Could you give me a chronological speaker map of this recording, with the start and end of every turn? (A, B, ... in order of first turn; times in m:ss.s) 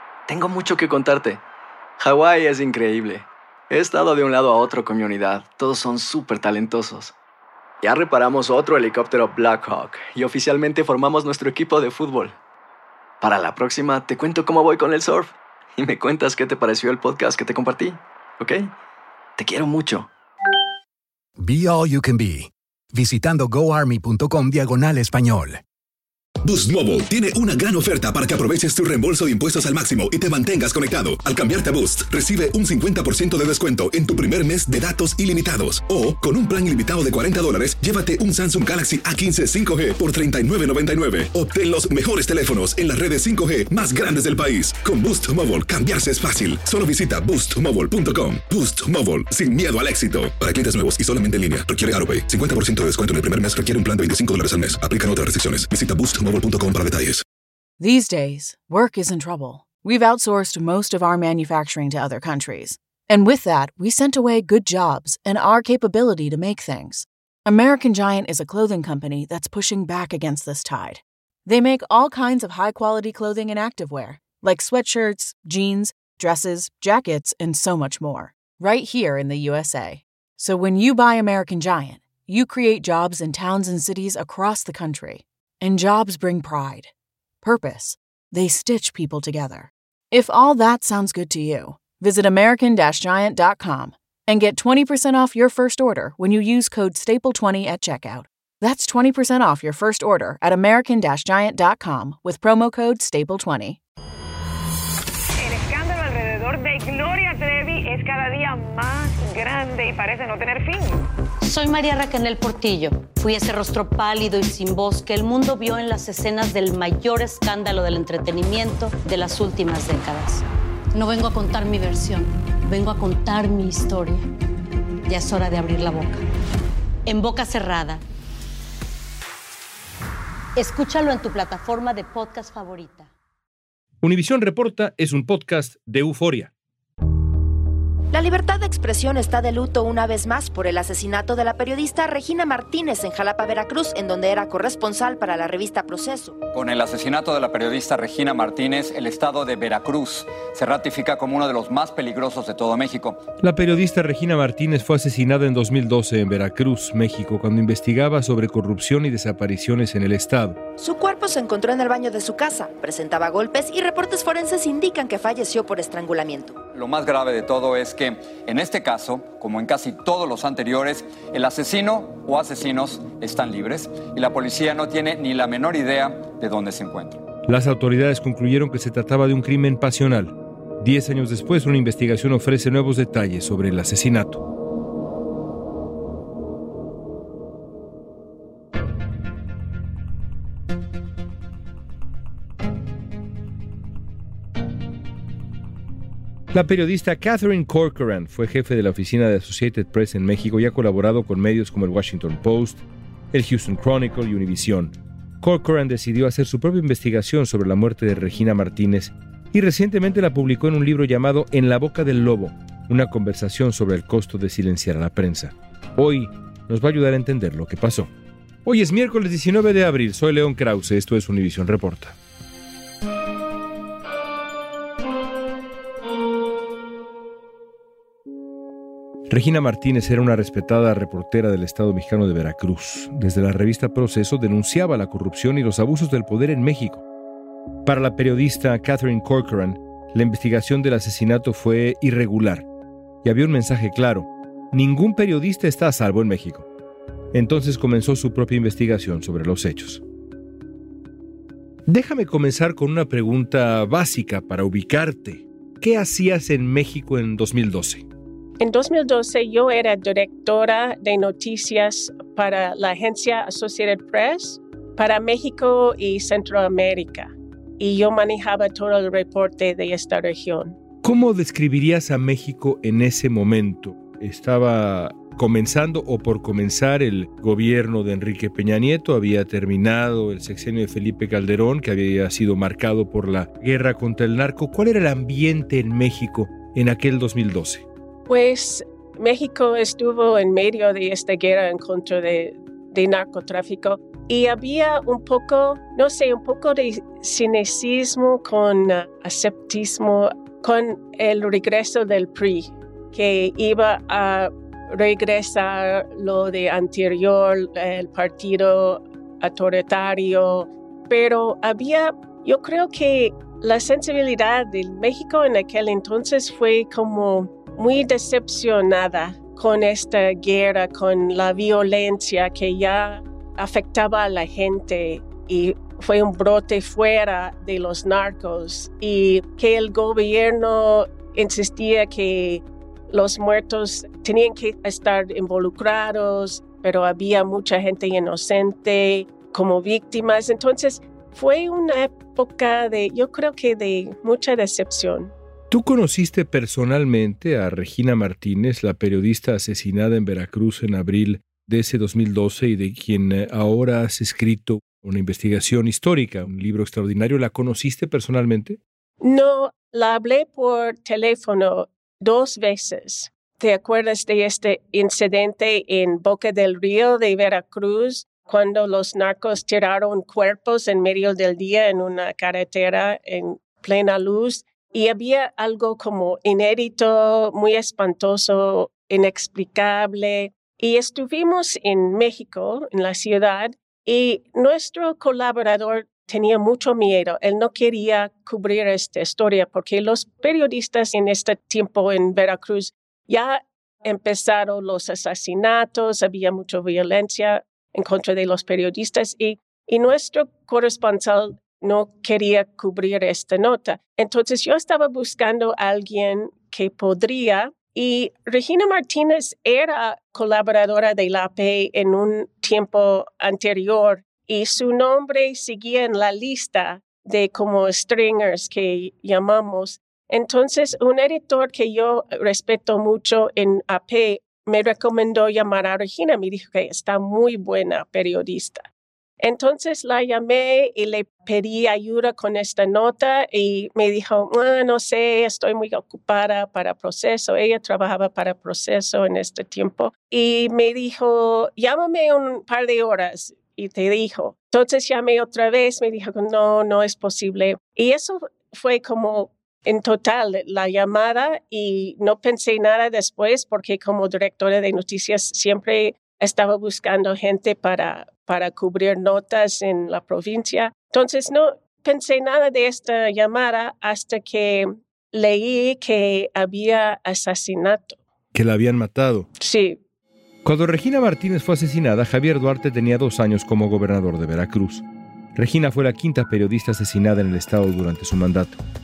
0:00.3-0:01.4 A
0:02.0-0:07.1 A
0:07.8-0:12.4 A
0:13.2-0:18.7 A
0:19.4-0:20.1 A
0:21.4-0:25.6 B
0:26.4-0:57.2 C
0:57.8-1:26.9 D
1:27.4-1:43.8 D
1:45.4-1:51.1 E
1:51.4-2:04.3 F
2:05.1-2:06.2 F
2:07.0-2:08.0 F
2:10.6-2:13.1 F
2:14.0-2:16.5 G
2:18.1-2:26.4 H
2:26.5-2:33.2 I
2:33.4-2:40.6 G
2:40.8-2:46.6 H
2:46.7-2:57.2 I
2:57.5-3:04.4 G
3:16.5-3:38.1 G
3:38.6-3:42.2 G
3:49.3-3:57.0 G
3:57.8-4:02.6 G
4:03.2-4:06.7 G
4:07.3-4:10.0 G
4:11.9-4:18.0 G
4:18.6-4:30.8 J
4:31.0-4:47.8 G
4:48.3-5:45.3 J
5:45.7-5:58.8 G
5:59.2-7:08.8 J
7:09.4-7:48.2 J
7:48.5-7:49.5 G
7:49.6-7:50.0 J
7:50.6-7:55.0 G
7:55.5-7:58.8 G